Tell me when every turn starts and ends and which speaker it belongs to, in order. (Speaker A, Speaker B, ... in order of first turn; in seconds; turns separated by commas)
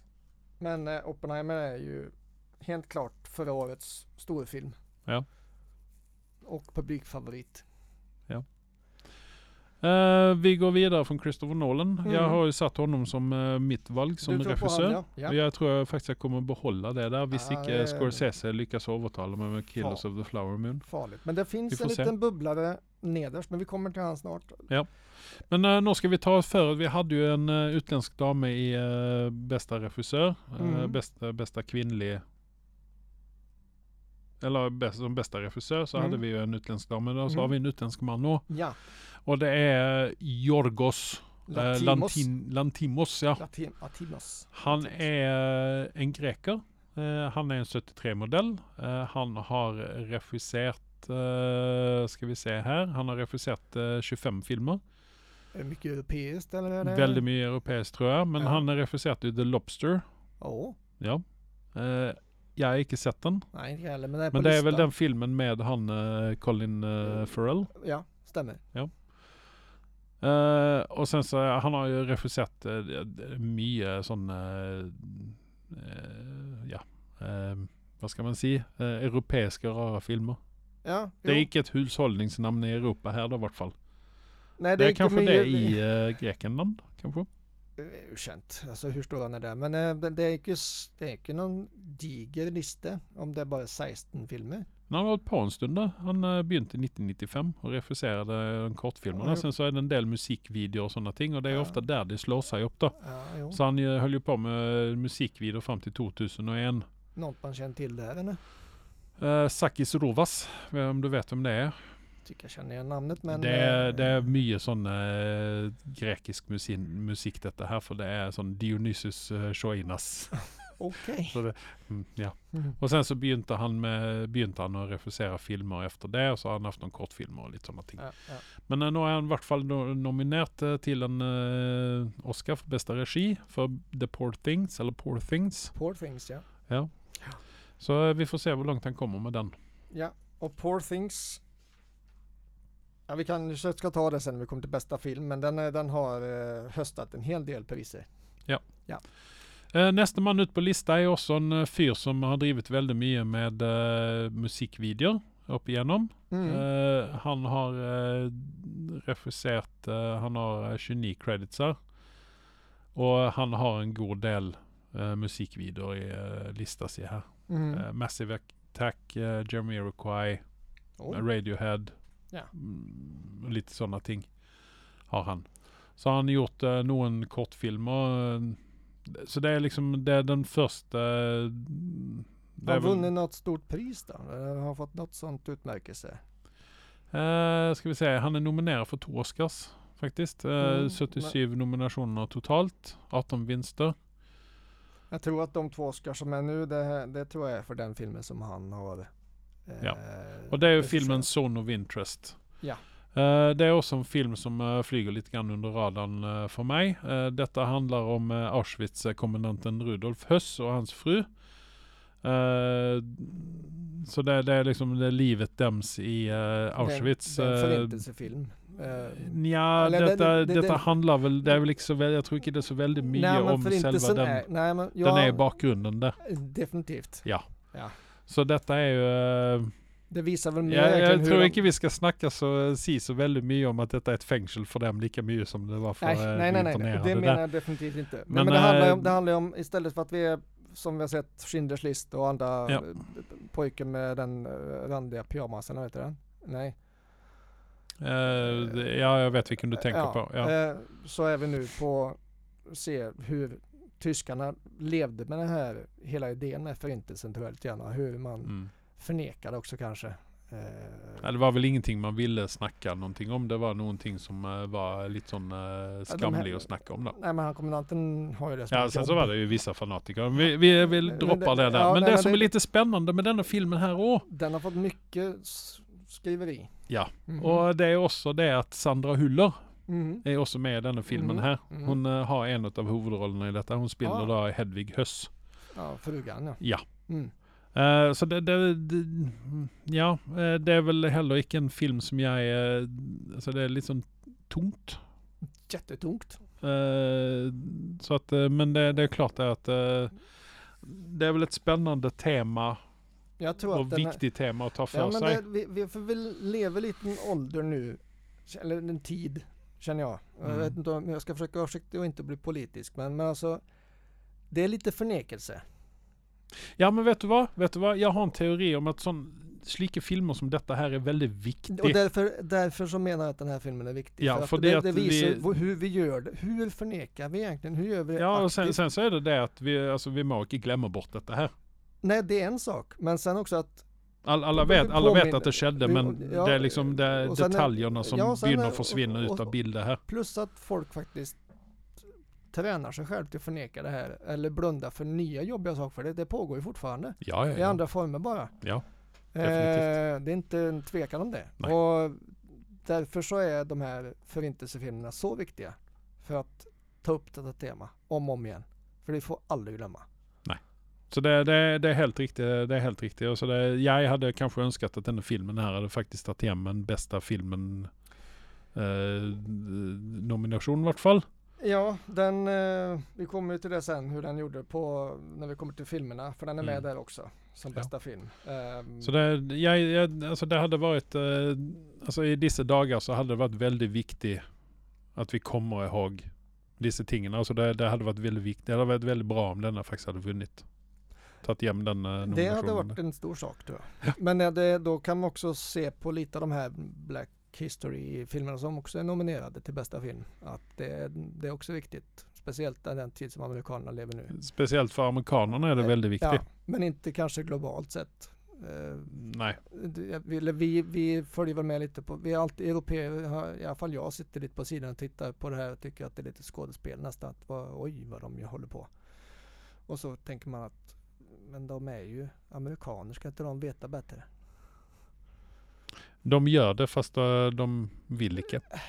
Speaker A: 0.6-4.8, Speaker A: 6.4-7.7, Speaker B: 9.8-20.9, Speaker A: 12.0-12.4, Speaker A: 14.2-15.4, Speaker A: 17.3-18.3, Speaker A: 19.8-20.0, Speaker A: 20.8-24.7, Speaker B: 21.7-22.1, Speaker B: 24.7-32.2, Speaker A: 30.6-31.0, Speaker B: 34.4-38.5, Speaker A: 36.0-36.2, Speaker A: 38.5-38.8, Speaker B: 39.2-43.4, Speaker A: 41.5-42.3, Speaker A: 43.4-45.0, Speaker B: 44.5-54.8, Speaker A: 55.5-57.2, Speaker B: 56.8-60.0, Speaker A: 60.4-60.8, Speaker B: 61.8-63.5, Speaker A: 63.5-64.9, Speaker B: 64.3-67.7, Speaker A: 67.8-68.6, Speaker B: 70.2-80.4, Speaker A: 80.8-81.5, Speaker B: 81.2-83.8, Speaker A: 84.6-85.8, Speaker B: 84.8-87.3, Speaker A: 87.8-94.7, Speaker B: 94.9-103.0, Speaker A: 99.1-99.5, Speaker A: 101.5-101.8, Speaker A: 103.0-103.6, Speaker B: 103.5-106.9, Speaker A: 107.2-108.4, Speaker B: 109.2-111.8, Speaker A: 112.2-114.3, Speaker B: 113.3-120.4, Speaker A: 120.8-121.4, Speaker B: 121.3-128.0, Speaker A: 128.0-128.4, Speaker B: 128.6-135.7, Speaker A: 135.7-136.5, Speaker B: 137.8-139.5, Speaker A: 139.9-141.4, Speaker A: 143.1-148.1, Speaker B: 149.7-161.8, Speaker A: 156.3-156.6, Speaker B: 162.9-170.4, Speaker A: 167.5-167.8, Speaker A: 171.0-171.2, Speaker B: 171.1-171.9, Speaker B: 172.5-174.3, Speaker B: 175.1-183.1, Speaker A: 182.6-186.2, Speaker B: 187.1-194.0, Speaker A: 190.6-191.3, Speaker A: 195.1-199.1, Speaker A: 199.7-201.3, Speaker B: 200.5-202.4, Speaker B: 203.1-211.3, Speaker B: 212.2-218.0, Speaker A: 216.8-220.9, Speaker B: 219.1-224.5, Speaker A: 223.1-225.5, Speaker B: 225.0-226.2, Speaker A: 226.2-227.9, Speaker B: 228.3-229.7, Speaker A: 230.1-231.6, Speaker B: 230.7-237.4, Speaker A: 236.0-246.8, Speaker B: 238.3-239.2, Speaker B: 248.0-250.5, Speaker A: 248.4-248.9, Speaker A: 249.7-261.3, Speaker B: 261.2-267.2, Speaker A: 266.1-269.3, Speaker B: 268.7-274.2, Speaker A: 270.9-272.5, Speaker A: 274.3-276.7, Speaker B: 276.9-279.6, Speaker A: 277.3-277.6, Speaker A: 279.9-280.2, Speaker B: 280.2-285.3, Speaker A: 281.1-282.0, Speaker A: 284.0-284.3, Speaker A: 285.7-287.3, Speaker B: 287.7-295.0, Speaker A: 295.7-296.4, Speaker B: 296.6-300.1, Speaker B: 300.8-302.8, Speaker A: 303.4-304.2, Speaker B: 303.7-305.4, Speaker A: 304.9-313.6, Speaker B: 310.4-310.8, Speaker A: 314.5-315.6, Speaker B: 316.8-322.0, Speaker A: 321.7-328.8, Speaker B: 324.2-325.5, Speaker B: 328.2-331.5, Speaker A: 332.0-333.9, Speaker B: 334.2-340.0, Speaker A: 334.6-339.5, Speaker A: 340.1-341.4, Speaker A: 342.5-348.5, Speaker B: 347.2-347.8, Speaker A: 349.3-360.1, Speaker B: 349.4-349.9, Speaker B: 360.4-367.9, Speaker B: 368.7-371.2, Speaker A: 371.6-379.1, Speaker B: 379.0-384.4, Speaker B: 385.1-390.6, Speaker B: 391.4-393.0, Speaker A: 392.2-404.4, Speaker B: 404.3-406.4, Speaker A: 405.8-418.9, Speaker B: 409.1-409.6, Speaker A: 419.9-424.3, Speaker B: 426.2-428.6